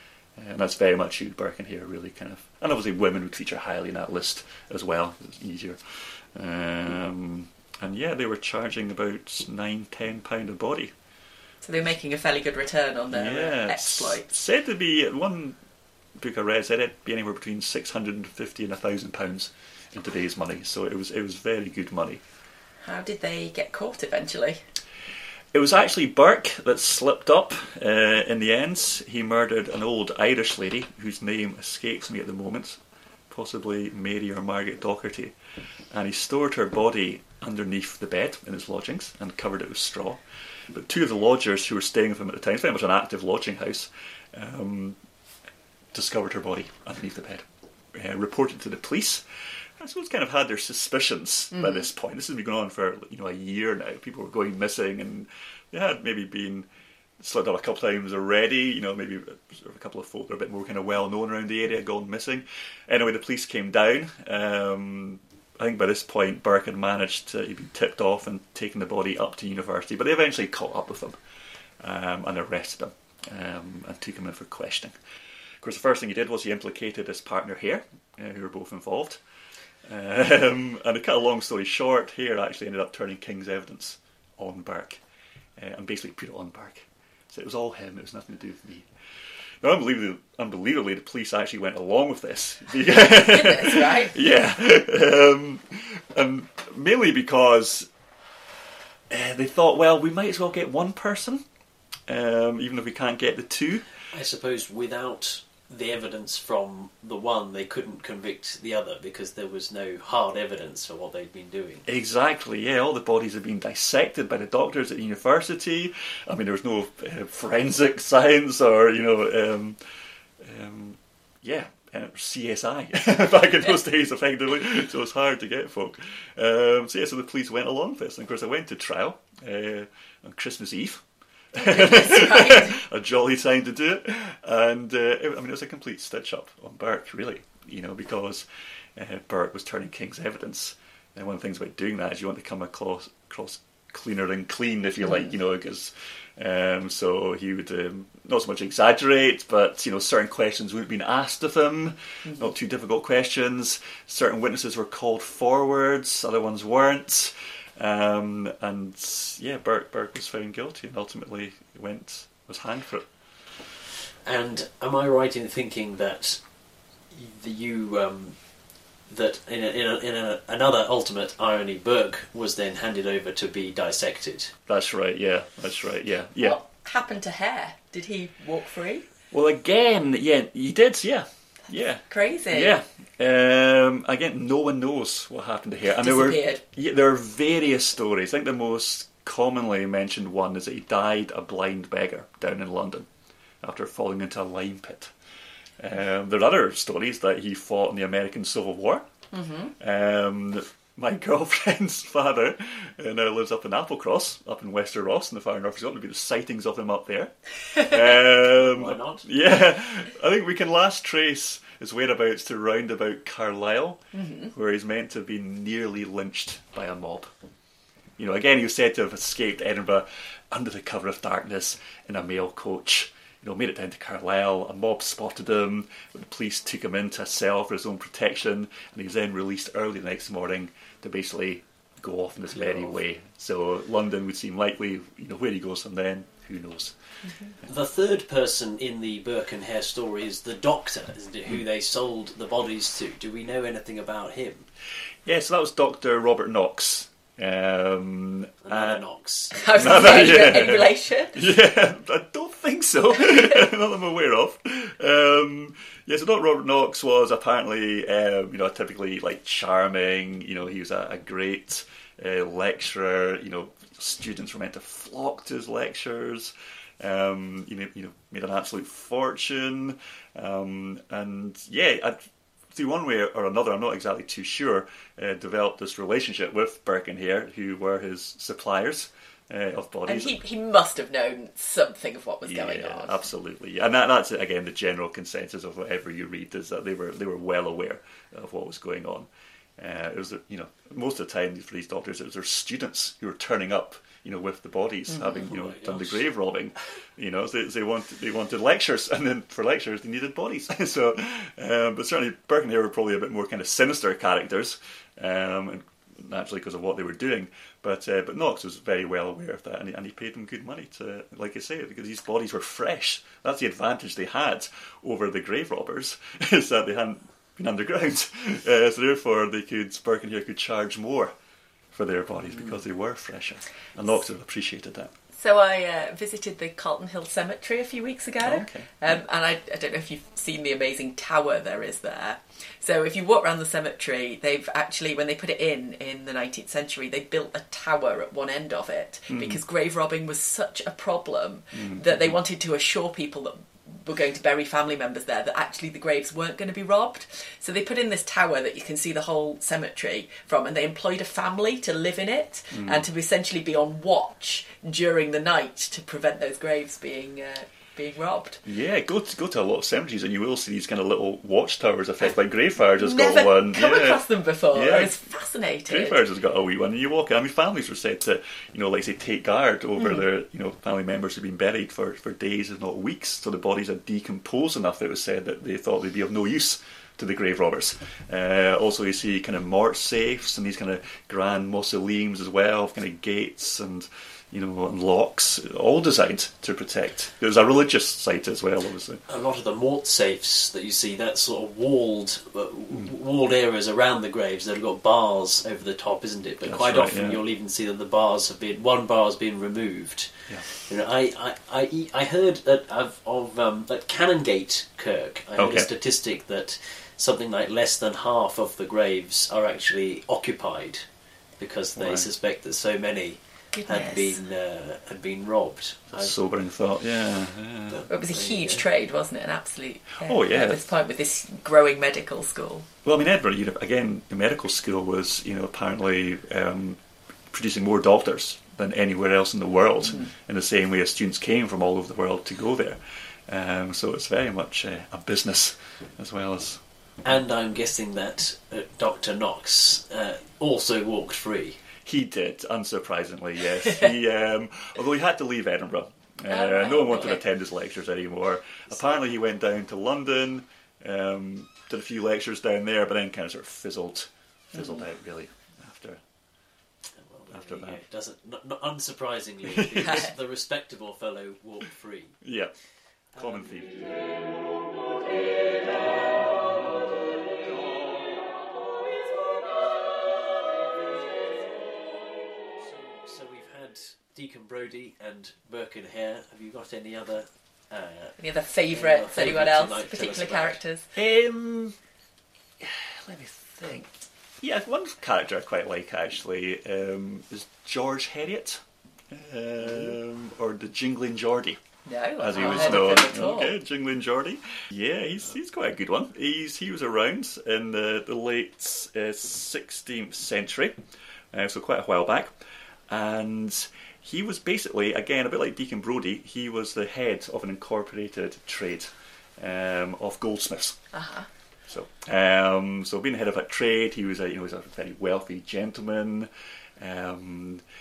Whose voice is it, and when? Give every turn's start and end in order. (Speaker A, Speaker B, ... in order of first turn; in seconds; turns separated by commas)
Speaker A: 0.4-10.9, Speaker B: 11.6-14.3, Speaker A: 13.1-15.6, Speaker A: 16.2-22.2, Speaker B: 22.9-24.6, Speaker A: 25.5-35.4, Speaker A: 35.9-40.2, Speaker A: 40.7-45.0, Speaker A: 45.9-49.2, Speaker A: 49.8-56.7, Speaker A: 57.2-71.2, Speaker A: 71.8-75.0, Speaker A: 75.6-79.2, Speaker A: 79.8-85.0, Speaker A: 85.6-88.9, Speaker A: 89.6-97.9, Speaker B: 93.1-94.2, Speaker A: 99.1-101.5, Speaker A: 102.1-103.9, Speaker C: 104.1-111.8, Speaker A: 111.9-119.8, Speaker A: 120.4-163.1, Speaker B: 131.6-132.8, Speaker C: 164.3-166.4, Speaker C: 167.1-168.4, Speaker C: 169.1-174.5, Speaker A: 174.7-176.6, Speaker B: 176.4-179.1, Speaker A: 179.3-193.1, Speaker B: 182.0-182.8, Speaker B: 186.0-186.6, Speaker A: 193.6-195.1, Speaker A: 195.8-199.1, Speaker B: 199.3-199.7, Speaker A: 199.8-217.3, Speaker C: 208.2-209.3, Speaker B: 214.1-214.5, Speaker A: 218.2-237.0, Speaker C: 232.6-232.9, Speaker C: 237.6-244.7, Speaker A: 245.3-249.0, Speaker C: 248.7-250.2, Speaker B: 249.5-251.4, Speaker A: 249.8-272.2, Speaker A: 272.7-280.4, Speaker B: 280.1-283.2, Speaker A: 282.4-321.3, Speaker B: 295.1-295.5, Speaker C: 295.4-296.3, Speaker A: 321.9-325.1, Speaker B: 325.4-358.6, Speaker A: 328.4-328.9, Speaker A: 339.3-339.6, Speaker A: 341.8-342.3, Speaker A: 352.7-353.0, Speaker A: 358.6-365.1, Speaker B: 363.0-366.2, Speaker A: 365.9-389.2, Speaker C: 389.3-411.0, Speaker A: 396.6-397.4, Speaker A: 405.6-405.9, Speaker C: 411.6-416.3, Speaker A: 412.0-412.3, Speaker B: 413.7-414.4, Speaker A: 416.2-418.1, Speaker C: 417.9-418.9, Speaker B: 418.1-422.9, Speaker A: 420.2-420.8, Speaker A: 423.0-427.0, Speaker A: 427.5-436.8, Speaker C: 437.2-441.8, Speaker A: 442.0-456.2, Speaker B: 446.5-447.4, Speaker C: 457.2-462.4, Speaker A: 457.5-458.0, Speaker A: 459.7-460.2, Speaker B: 459.9-460.3, Speaker A: 462.4-462.7, Speaker C: 463.3-463.7, Speaker A: 463.4-464.3, Speaker C: 472.8-481.9, Speaker B: 478.4-481.1, Speaker A: 482.8-484.1, Speaker A: 484.6-491.8, Speaker B: 492.1-493.8, Speaker A: 492.4-501.0, Speaker A: 501.5-502.5, Speaker A: 503.1-511.0, Speaker B: 511.1-511.5, Speaker A: 511.9-516.5, Speaker A: 517.0-517.8